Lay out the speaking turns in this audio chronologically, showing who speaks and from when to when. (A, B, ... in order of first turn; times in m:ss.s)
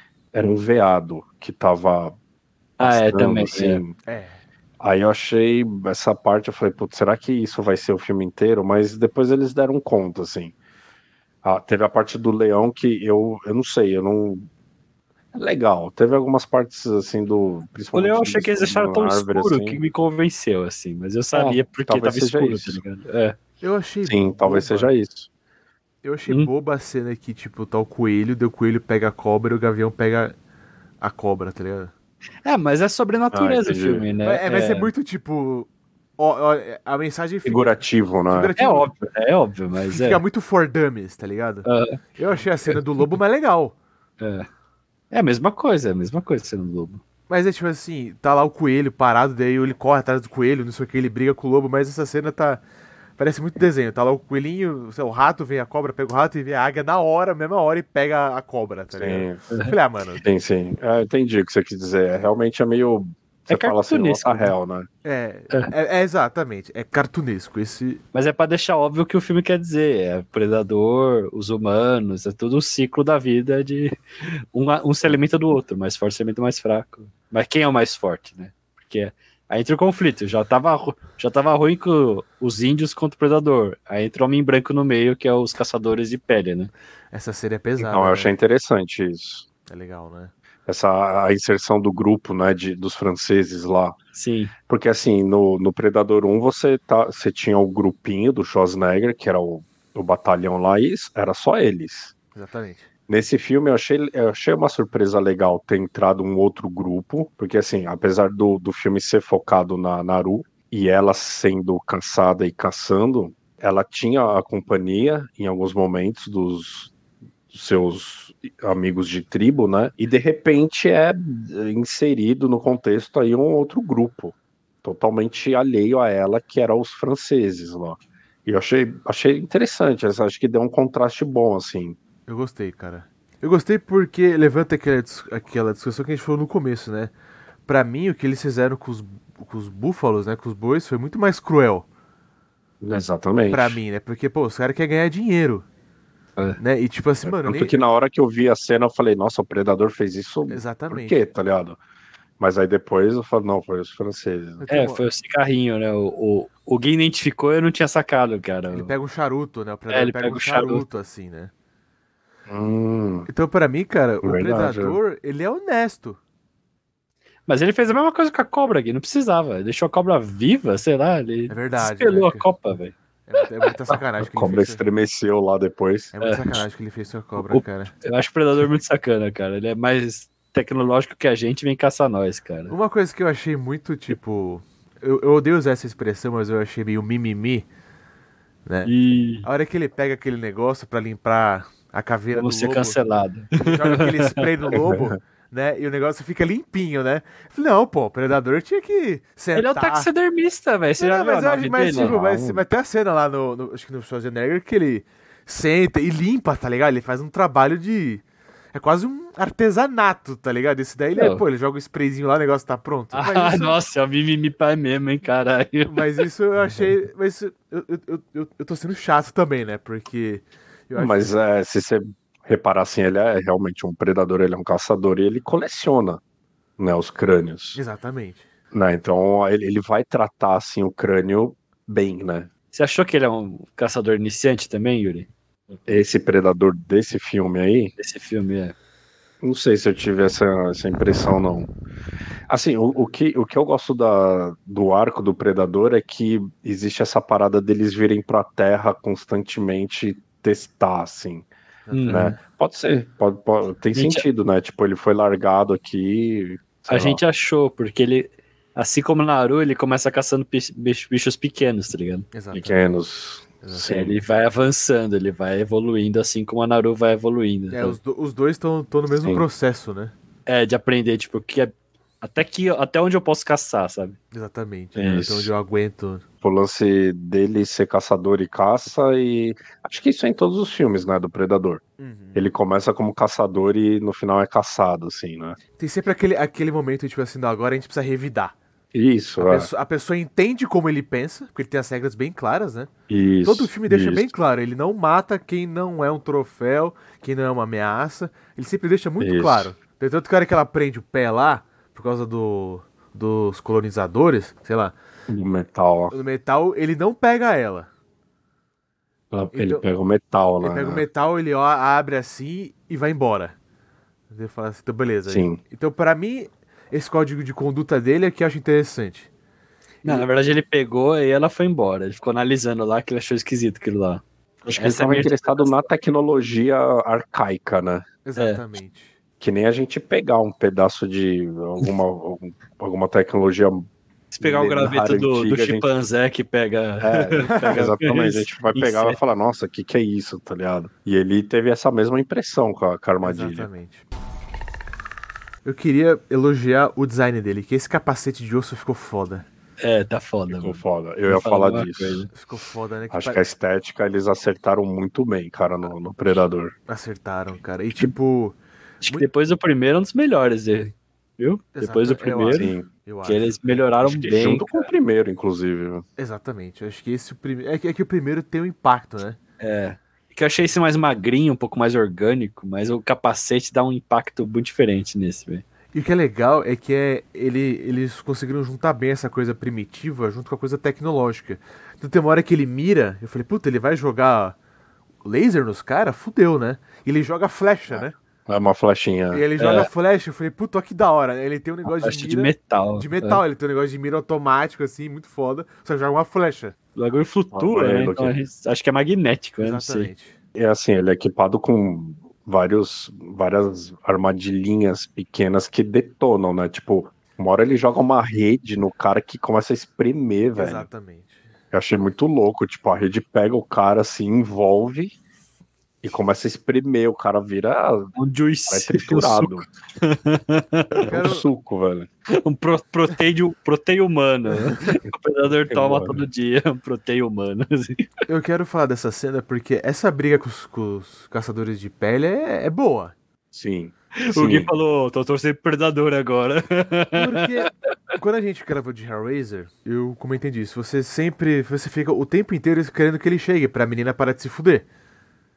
0:00.3-0:02.2 A
0:02.8-0:03.8 B
0:02.8-0:03.9 A
0:04.0-0:04.4 C
0:04.8-0:10.5 A
0:11.4-0:14.5 A
0:15.3-0:19.8 A
0:17.9-0:23.4 B
0:21.3-0:22.8 A
0:23.6-0:24.9 C
0:24.0-0:25.3 A
0:26.0-0:30.3 C
0:31.0-0:31.9 C
0:32.4-0:34.9 B
0:33.3-0:34.1 A
0:34.2-0:38.9 C
0:37.4-0:38.5 A
0:38.6-0:40.2 B
0:39.8-0:41.6 C
0:41.6-0:42.0 B
0:42.2-0:43.7 C
0:44.2-0:44.5 B
0:45.1-0:47.0 B
0:47.3-0:52.6 C
0:53.2-1:00.2 C
0:58.9-0:59.4 A
1:00.2-1:04.9 A
1:03.5-1:04.5 B
1:05.0-1:08.0 C
1:08.1-1:26.7 B
1:27.1-1:28.3 C
1:27.8-1:29.4 A
1:29.7-1:30.3 C
1:30.7-1:34.0 A
1:34.1-1:34.5 B
1:34.7-1:42.1 A
1:42.3-1:42.9 C
1:43.1-1:56.9 A
1:57.5-2:12.0 A
2:12.3-2:17.1 C
2:17.7-2:21.8 C
2:22.8-2:23.8 A
2:23.5-2:25.6 C
2:26.6-2:27.8 C
2:27.2-2:31.8 A
2:30.5-2:31.2 C
2:32.4-2:34.6 A
2:34.6-2:35.0 C
2:34.7-2:38.9 B
2:38.7-2:41.5 C
2:39.9-2:40.8 B
2:42.5-2:43.3 A
2:43.3-2:46.2 C
2:44.2-2:45.0 A
2:47.5-2:52.9 B
2:51.5-2:52.5 C
2:53.3-2:54.8 C
2:54.2-2:56.1 A
2:56.1-2:57.9 C
2:56.2-2:56.6 B
2:57.4-3:02.7 B
3:02.7-3:07.7 C
3:08.6-3:08.9 C
3:08.8-3:09.5 B
3:09.4-3:13.0 C
3:12.3-3:14.8 B
3:13.6-3:20.1 C
3:14.7-3:15.1 A
3:19.5-3:22.2 B
3:21.0-3:33.8 C
3:21.9-3:22.6 A
3:31.2-3:31.4 B
3:33.1-3:36.2 B
3:35.8-3:41.3 C
3:40.9-3:46.2 A
3:46.8-3:47.8 A
3:47.7-3:48.4 C
3:48.7-3:52.5 A
3:52.7-3:55.8 B
3:55.8-3:57.9 A
3:58.0-3:58.7 B
3:59.4-4:01.7 A
4:02.5-4:11.5 A
4:11.9-4:12.4 C
4:11.9-4:12.3 B
4:12.1-4:17.2 A
4:13.9-4:14.2 B
4:16.9-4:22.3 B
4:22.3-4:22.8 C
4:22.5-4:24.1 A
4:23.6-4:23.9 C
4:23.8-4:28.0 B
4:27.7-4:30.1 C
4:30.5-4:34.2 B
4:34.3-4:36.2 C
4:35.0-4:35.5 A
4:36.4-4:41.8 A
4:42.0-4:42.4 C
4:42.3-4:45.6 A
4:45.8-4:48.5 C
4:48.9-4:49.7 A
4:49.4-4:52.9 C
4:53.1-4:54.3 A
4:53.4-5:04.9 C
4:59.2-4:59.7 A
5:05.3-5:06.1 A
5:06.1-5:07.9 C
5:09.3-5:11.0 A
5:09.5-5:09.8 C
5:10.6-5:13.6 C
5:14.3-5:19.3 C
5:15.3-5:15.6 A
5:20.0-5:25.9 B
5:24.6-5:28.0 A
5:28.2-5:29.1 C
5:28.4-5:28.6 B
5:29.4-5:33.9 A
5:34.3-5:39.2 B
5:34.4-5:35.9 A
5:37.0-5:43.7 A
5:37.4-5:37.8 C
5:43.2-5:44.0 C
5:45.6-5:49.4 C
5:49.8-5:52.3 B
5:50.5-5:52.3 A
5:52.3-5:53.4 C
5:53.1-5:56.7 A
5:56.9-5:59.3 C
5:59.0-6:02.7 B
6:01.8-6:03.6 C
6:02.5-6:02.9 A
6:03.2-6:04.7 B
6:04.0-6:06.0 A
6:06.2-6:09.4 C
6:09.6-6:15.6 B
6:15.9-6:24.6 C
6:25.2-6:28.1 C
6:27.9-6:29.4 A
6:29.3-6:36.8 C
6:29.6-6:29.9 B
6:31.8-6:33.4 B
6:37.0-6:40.1 B
6:37.5-6:38.4 A
6:39.6-6:40.4 C
6:40.5-6:50.8 A
6:50.5-6:51.4 C
6:51.7-6:55.1 A
6:56.0-6:58.1 A
6:58.2-7:01.1 B
6:58.7-6:59.6 A
7:01.0-7:02.1 A
7:01.1-7:01.4 C
7:02.3-7:08.1 B
7:05.7-7:06.2 A
7:08.3-7:13.1 C
7:13.5-7:14.7 A
7:14.2-7:17.7 B
7:17.2-7:24.8 C